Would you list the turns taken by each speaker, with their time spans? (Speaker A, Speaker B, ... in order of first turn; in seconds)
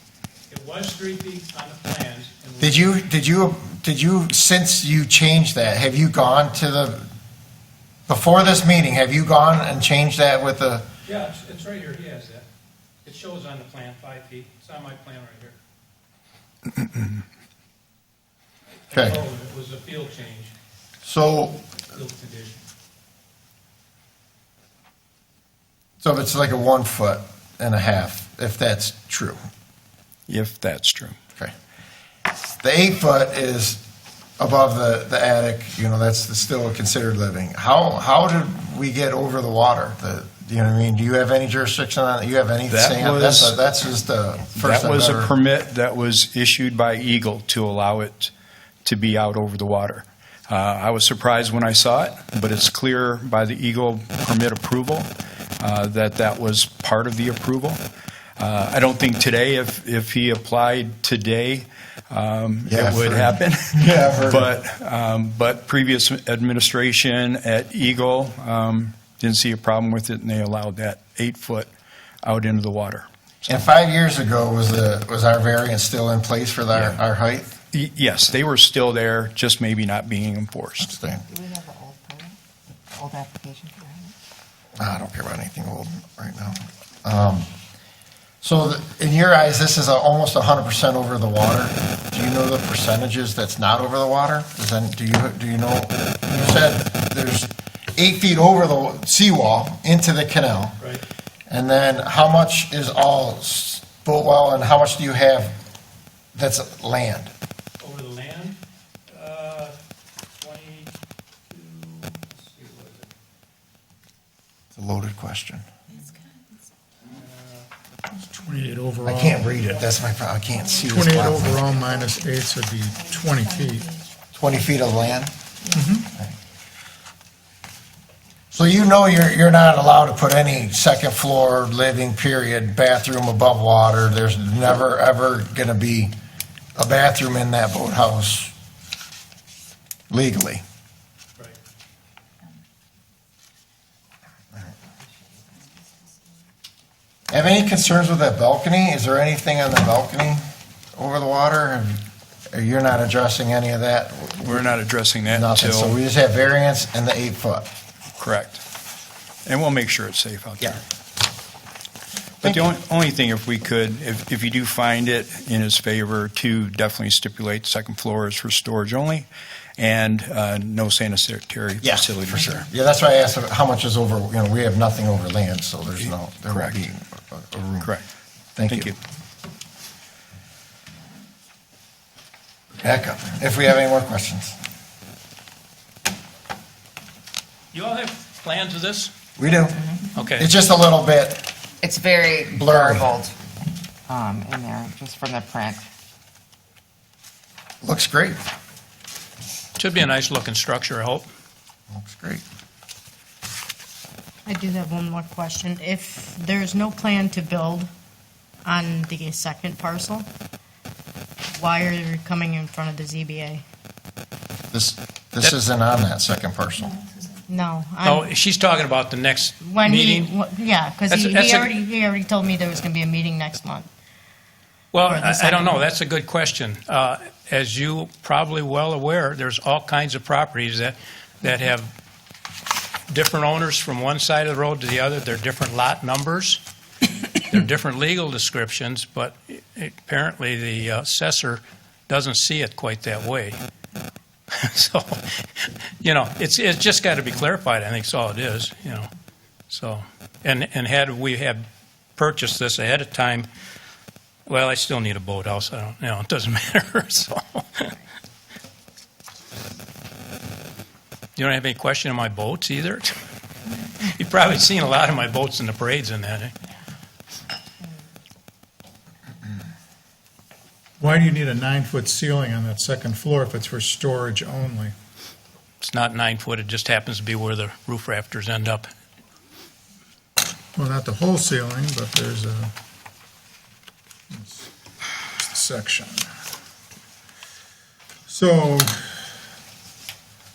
Speaker A: 0.5-3.0, 11.0-12.5, 13.0-15.6, 18.9-20.5, 21.9-22.6, 107.8-109.8, 110.4-110.9, 111.5-113.1, 117.1-117.7, 187.7-189.1, 190.1-190.5, 199.8-201.3, 218.0-220.3, 221.1-221.8, 224.9-231.9, 233.1-236.6, 237.4-243.6, 244.5-249.1, 249.7-251.7, 252.2-253.5, 254.5-257.9, 261.4-263.1, 264.0-266.5, 275.8-278.9
Speaker B: 2.6-7.1, 8.1-10.8, 18.9-19.2, 21.0-21.6, 26.0-29.4, 32.6-33.8, 34.4-45.3, 62.7-64.5, 73.5-77.5, 80.8-81.2, 84.8-87.5, 88.4-100.8, 101.5-105.6, 106.3-107.3, 114.8-115.7, 119.0-121.8, 124.3-125.3, 128.5-136.1, 136.8-138.5, 140.1-140.6, 147.3-150.4, 150.9-154.7, 155.3-157.7, 171.8-177.9, 178.6-179.0, 182.8-184.6, 189.4-189.9, 190.4-191.5, 192.5-193.1, 197.8-198.4, 201.9-202.4, 214.7-216.9
Speaker C: 30.3-31.2, 42.7-43.5, 44.6-48.3, 48.9-55.1, 55.6-57.8, 58.4-71.7, 72.2-73.1, 76.7-77.0, 77.7-80.9, 154.5-156.0, 158.2-158.6, 159.5-160.8, 162.5-172.6, 176.5-176.8, 178.7-178.9
Speaker D: 81.3-82.4, 82.9-84.2, 191.8-193.4, 194.1-195.9
Speaker E: 118.2-119.4, 120.9-124.0, 125.7-126.1, 271.0-274.9, 280.8-282.7, 284.3-284.7, 285.4-286.3, 288.3-289.1
Speaker F: 204.5-207.9, 208.7-210.3, 211.6-213.6, 217.5-218.3, 219.6-223.9, 225.1-225.8